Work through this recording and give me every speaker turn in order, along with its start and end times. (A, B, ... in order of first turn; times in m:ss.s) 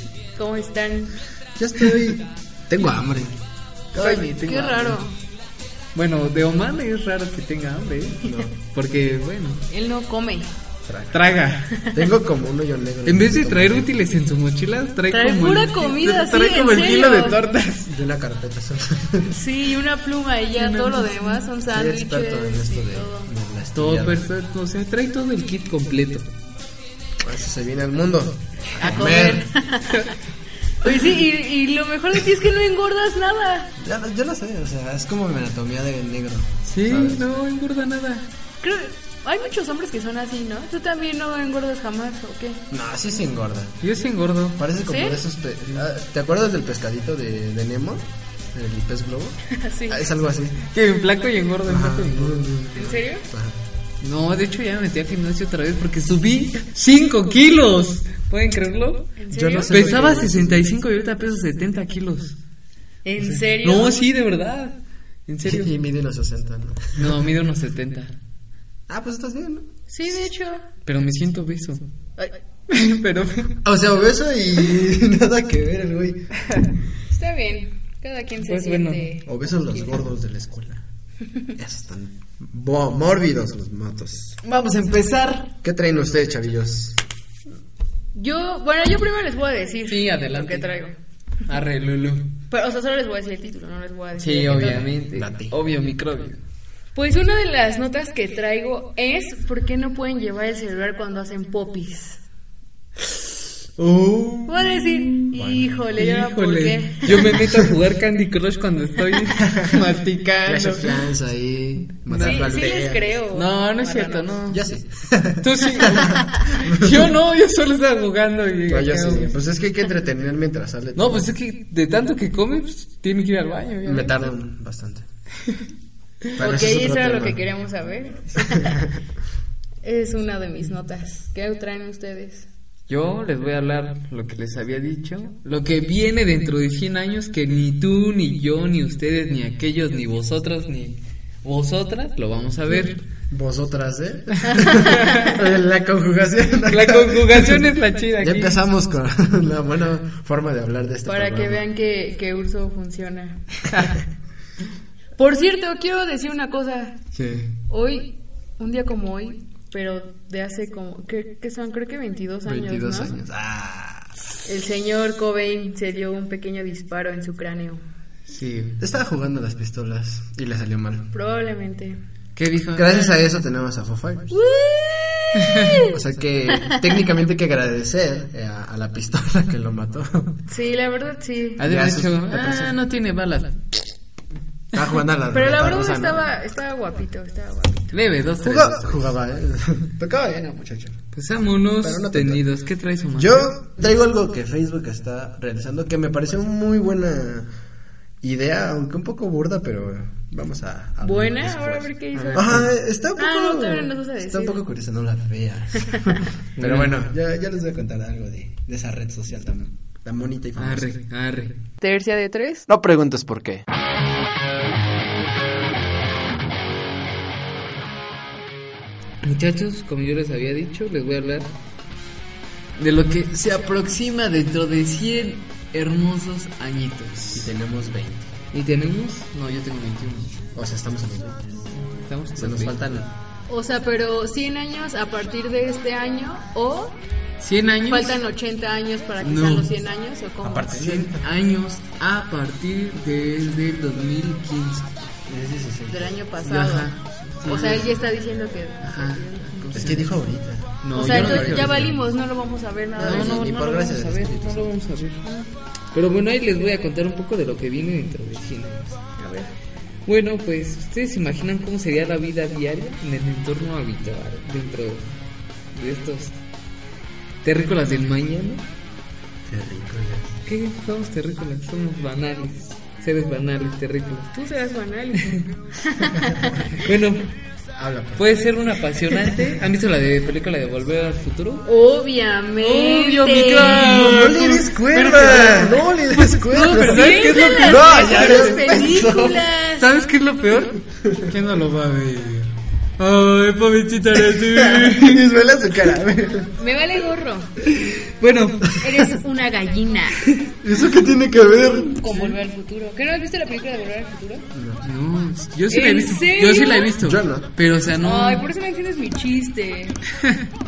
0:00.4-0:01.1 A
0:01.6-0:03.4 B
0:03.9-0:05.0 C
0:04.0-0:05.2 A
0:05.9-0:09.6 C
0:08.2-0:08.6 B
0:09.7-0:10.5 A
0:10.9-0:11.2 B
0:11.1-0:11.7 C
0:11.9-0:13.9 B
0:13.1-0:17.9 C
0:15.1-0:17.4 A
0:17.9-0:19.3 B
0:19.3-0:23.3 A
0:20.6-0:21.4 C
0:21.7-0:24.2 B
0:23.7-0:26.3 C
0:27.2-0:29.5 B
0:28.8-0:30.2 A
0:30.8-0:33.7 A
0:33.8-0:37.4 B
0:36.7-0:38.2 C
0:38.6-0:42.6 A
0:42.7-0:43.8 B
0:43.8-0:44.6 C
0:44.6-0:49.4 B
0:44.8-0:45.2 A
0:49.5-0:50.1 A
0:49.9-0:50.6 B
0:50.7-0:52.5 C
0:51.7-0:53.6 B
0:52.8-0:53.2 A
0:54.0-0:59.1 C
0:59.2-0:59.8 A
0:59.3-1:00.7 B
0:59.7-1:02.4 C
1:03.0-1:04.0 A
1:03.5-1:05.7 C
1:05.4-1:07.1 B
1:07.0-1:08.1 C
1:08.9-1:09.7 B
1:09.9-1:10.7 A
1:10.9-1:11.8 C
1:12.7-1:13.6 C
1:13.6-1:16.3 B
1:17.1-1:20.0 A
1:18.5-1:19.0 C
1:19.2-1:20.8 B
1:21.6-1:24.4 B
1:24.4-1:25.5 C
1:25.6-1:27.0 B
1:28.2-1:31.0 A
1:29.9-1:30.7 C
1:31.5-1:32.3 C
1:32.5-1:34.7 A
1:34.2-1:36.4 C
1:34.4-1:35.5 B
1:37.0-1:42.2 A
1:43.8-1:45.2 C
1:44.5-1:47.4 A
1:45.4-1:45.7 B
1:46.0-1:51.0 C
1:47.3-1:47.7 B
1:49.4-1:49.8 B
1:50.4-1:53.2 B
1:52.1-1:52.6 C
1:52.2-1:54.3 A
1:53.3-1:54.6 C
1:54.5-1:57.1 B
1:55.4-1:59.4 C
1:58.7-2:01.3 B
2:01.0-2:04.3 C
2:03.8-2:05.1 B
2:06.4-2:07.4 B
2:06.4-2:08.9 A
2:08.6-2:08.9 B
2:09.8-2:12.5 A
2:12.9-2:23.0 C
2:23.3-2:27.7 B
2:24.7-2:25.2 A
2:26.7-2:28.6 C
2:28.2-2:31.6 B
2:31.1-2:33.6 A
2:35.2-2:37.0 A
2:37.1-2:37.5 B
2:37.7-2:43.1 A
2:42.5-2:44.2 B
2:44.5-2:47.8 A
2:48.3-2:48.8 C
2:48.8-2:51.1 B
2:51.1-2:52.0 A
2:52.4-2:53.2 C
2:52.8-2:54.3 B
2:54.3-2:55.9 A
2:55.8-3:00.4 B
3:00.5-3:01.6 A
3:01.6-3:03.9 C
3:01.6-3:02.7 B
3:04.7-3:06.2 B
3:05.3-3:07.9 A
3:07.9-3:09.1 C
3:08.4-3:11.0 B
3:11.1-3:13.5 C
3:11.8-3:12.4 B
3:13.1-3:17.5 B
3:18.2-3:31.0 B
3:21.0-3:24.6 A
3:22.3-3:22.7 C
3:25.9-3:26.2 A
3:26.6-3:27.0 C
3:30.6-3:31.6 C
3:31.8-3:32.7 A
3:32.7-3:33.7 B
3:39.2-3:41.5 C
3:42.8-3:47.5 C
3:47.3-3:48.3 B
3:48.5-3:50.4 C
3:50.6-3:51.5 B
3:51.7-3:52.8 C
3:52.4-3:53.1 B
3:53.5-3:57.0 A
3:57.4-3:58.2 C
3:57.9-4:01.0 A
3:59.2-3:59.8 C
4:00.4-4:01.3 B
4:00.8-4:04.9 C
4:05.3-4:06.2 B
4:05.9-4:06.9 A
4:06.4-4:07.9 C
4:07.4-4:10.0 A
4:07.5-4:07.9 B
4:08.8-4:10.1 C
4:09.7-4:12.0 B
4:10.8-4:11.9 C
4:10.9-4:13.5 A
4:13.0-4:14.7 B
4:13.0-4:15.2 C
4:15.9-4:19.0 C
4:19.2-4:19.5 A
4:20.1-4:25.1 C
4:25.7-4:26.4 C
4:27.4-4:28.6 C
4:29.5-4:30.4 B
4:30.5-4:34.3 C
4:34.3-4:36.8 A
4:36.8-4:37.3 C
4:37.8-4:38.3 B
4:38.2-4:41.7 C
4:41.6-4:43.8 A
4:42.6-4:48.7 C
4:43.7-4:49.5 B
4:46.7-4:49.9 A
4:49.8-4:55.2 C
4:51.0-4:51.3 B
4:54.3-4:56.5 B
4:56.6-4:57.5 A
4:57.6-4:58.8 C
4:58.8-5:00.2 A
5:00.6-5:01.9 B
5:01.5-5:04.5 A
5:02.1-5:02.4 C
5:04.5-5:04.8 B
5:04.8-5:08.5 C
5:05.7-5:06.9 A
5:07.0-5:07.5 B
5:08.0-5:10.0 A